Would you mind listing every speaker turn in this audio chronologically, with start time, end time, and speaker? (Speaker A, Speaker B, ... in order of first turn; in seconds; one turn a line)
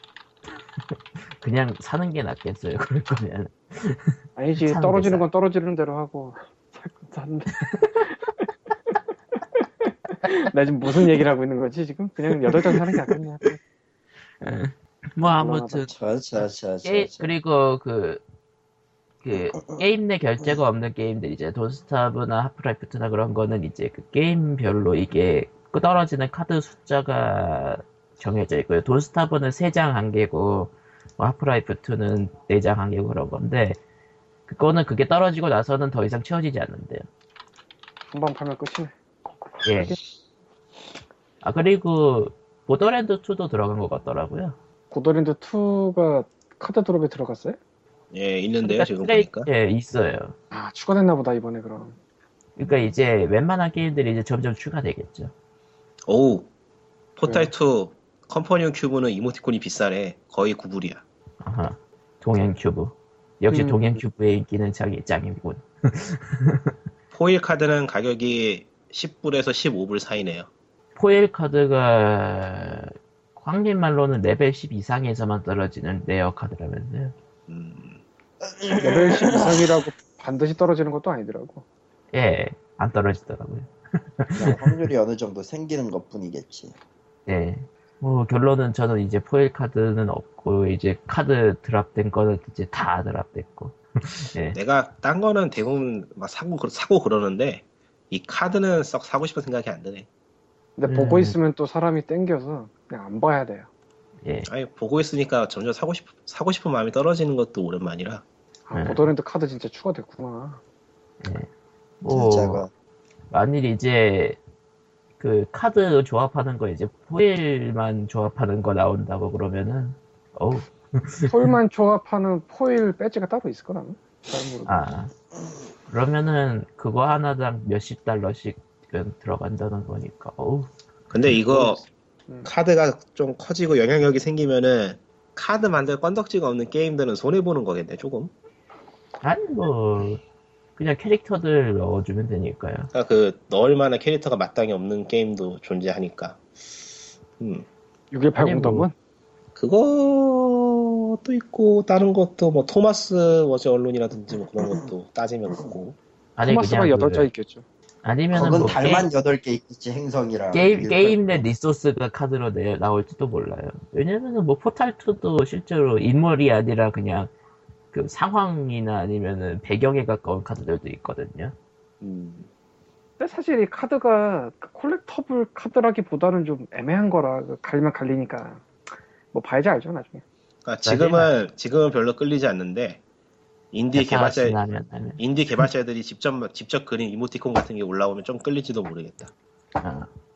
Speaker A: 1.4-5.2
Speaker B: 4.4-8.5
Speaker B: 9.6-13.6
Speaker A: 12.5-12.9
Speaker A: 14.4-18.2
Speaker B: 15.2-15.8
Speaker C: 15.9-17.3
Speaker A: 19.2-33.8
Speaker A: 34.5-37.1
Speaker B: 38.1-38.9
Speaker B: 39.6-40.0
Speaker A: 39.6-40.0
Speaker A: 41.4-44.6
Speaker B: 44.9-47.6
Speaker D: 48.1-49.5
Speaker A: 48.6-50.4
Speaker B: 50.5-52.0
Speaker A: 52.6-55.3
Speaker D: 56.1-56.5
Speaker D: 57.2-61.0
Speaker B: 57.3-57.5
Speaker A: 61.4-66.8
Speaker B: 63.5-64.0
Speaker D: 67.1-70.5
Speaker A: 71.0-77.1
Speaker D: 77.5-78.0
Speaker C: 78.4-79.6
Speaker B: 78.8-81.6
Speaker A: 82.1-84.9
Speaker C: 84.4-86.7
Speaker A: 87.3-94.6
Speaker D: 94.5-100.1
Speaker B: 100.8-103.7
Speaker A: 100.9-101.3
Speaker D: 104.5-108.2
Speaker B: 108.7-110.6
Speaker A: 108.8-109.0
Speaker A: 111.2-111.5
Speaker A: 112.0-112.7
Speaker C: 112.1-112.7
Speaker A: 113.3-114.4
Speaker A: 115.2-121.5
Speaker B: 121.3-124.8
Speaker A: 124.7-125.1
Speaker A: 125.9-130.7
Speaker D: 131.1-131.8
Speaker B: 131.5-132.5
Speaker D: 132.4-138.3
Speaker A: 139.2-140.2
Speaker A: 140.8-142.9
Speaker D: 142.9-146.4
Speaker D: 147.4-147.7
Speaker B: 148.1-148.9
Speaker A: 148.4-148.9
Speaker D: 149.6-156.0
Speaker A: 156.4-157.3
Speaker B: 156.4-157.6
Speaker A: 158.0-159.1
Speaker C: 158.3-161.4
Speaker A: 160.5-167.3
Speaker A: 167.9-171.6
Speaker D: 172.0-172.5
Speaker B: 173.2-178.7
Speaker B: 179.3-180.2
Speaker D: 180.7-183.0
Speaker A: 180.8-181.3
Speaker D: 183.7-184.6
Speaker A: 183.9-185.7
Speaker D: 185.2-189.3
Speaker A: 189.8-190.1